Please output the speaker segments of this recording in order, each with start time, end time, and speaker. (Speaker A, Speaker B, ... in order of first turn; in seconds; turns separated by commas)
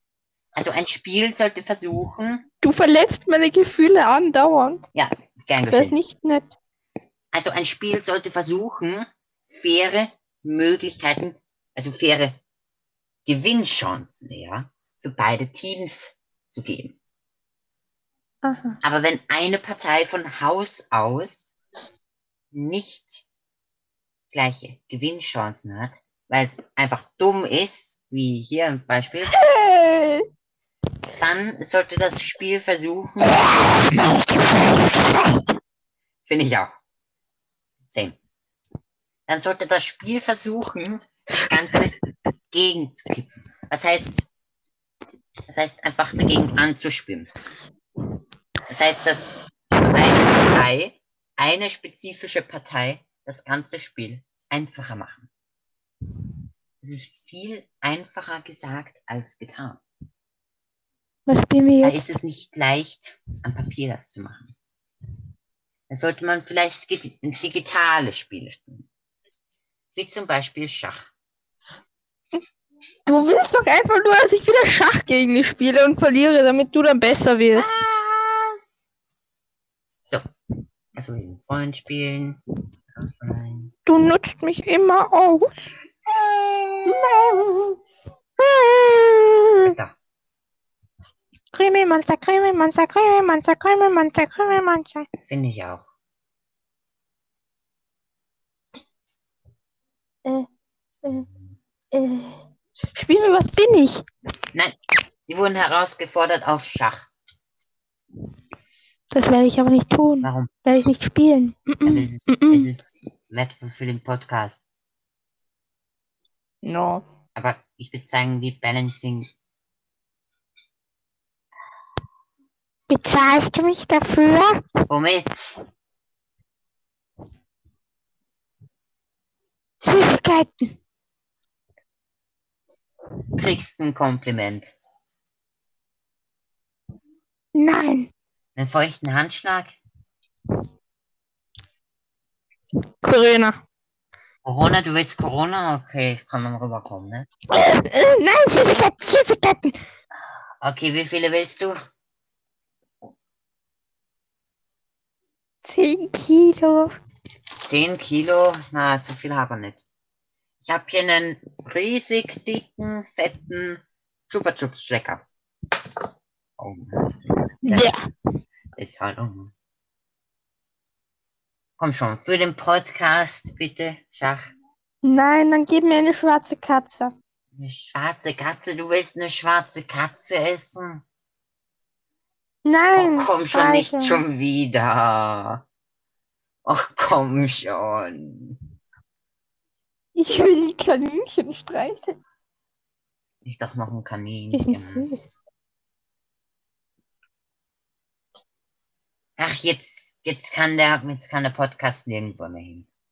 Speaker A: 0.6-2.5, Speaker B: 2.6-4.8, Speaker A: 5.0-6.0, Speaker B: 5.7-6.5, Speaker A: 7.3-12.4, Speaker A: 13.3-17.0, Speaker B: 18.4-18.8, Speaker A: 18.8-21.5, Speaker A: 22.5-23.3, Speaker A: 24.3-29.3, Speaker B: 29.3-30.3, Speaker A: 31.2-33.5, Speaker B: 33.3-35.5, Speaker A: 36.3-36.8, Speaker A: 37.9-38.2, Speaker A: 39.3-42.0, Speaker A: 42.5-44.2, Speaker A: 45.5-47.3, Speaker A: 48.7-55.3, Speaker A: 56.8-59.8, Speaker B: 61.3-62.1, Speaker A: 61.8-64.5, Speaker A: 65.9-68.9, Speaker A: 69.9-71.1, Speaker B: 73.1-77.7, Speaker A: 77.5-78.7, Speaker A: 81.0-82.4, Speaker A: 83.0-83.7, Speaker B: 83.9-85.6, Speaker A: 86.1-87.0, Speaker B: 86.9-87.8, Speaker B: 88.4-89.8, Speaker A: 89.6-90.0, Speaker B: 91.5-95.1, Speaker A: 95.3-95.8, Speaker B: 101.9-102.4, Speaker B: 102.9-104.0, Speaker A: 105.3-107.1, Speaker B: 109.1-112.7, Speaker A: 110.2-110.5, Speaker A: 111.8-114.6, Speaker B: 116.6-117.0, Speaker A: 117.3-119.3, Speaker B: 122.9-124.6, Speaker A: 124.9-125.6, Speaker B: 129.8-130.7, Speaker A: 133.4-134.8, Speaker B: 137.5-138.1, Speaker A: 138.6-139.8, Speaker B: 143.0-143.6, Speaker A: 144.4-147.3, Speaker B: 147.5-149.8, Speaker A: 150.6-151.7, Speaker B: 155.6-157.0, Speaker A: 157.6-159.8, Speaker A: 160.6-165.2, Speaker A: 166.6-168.0, Speaker B: 167.6-168.1, Speaker A: 168.8-169.5, Speaker A: 171.8-174.5, Speaker B: 175.0-177.1, Speaker A: 177.6-181.0, Speaker B: 182.7-184.2, Speaker A: 183.0-185.6, Speaker A: 186.7-188.6, Speaker B: 190.2-192.2, Speaker A: 193.4-195.1, Speaker B: 194.5-195.3, Speaker A: 199.4-202.9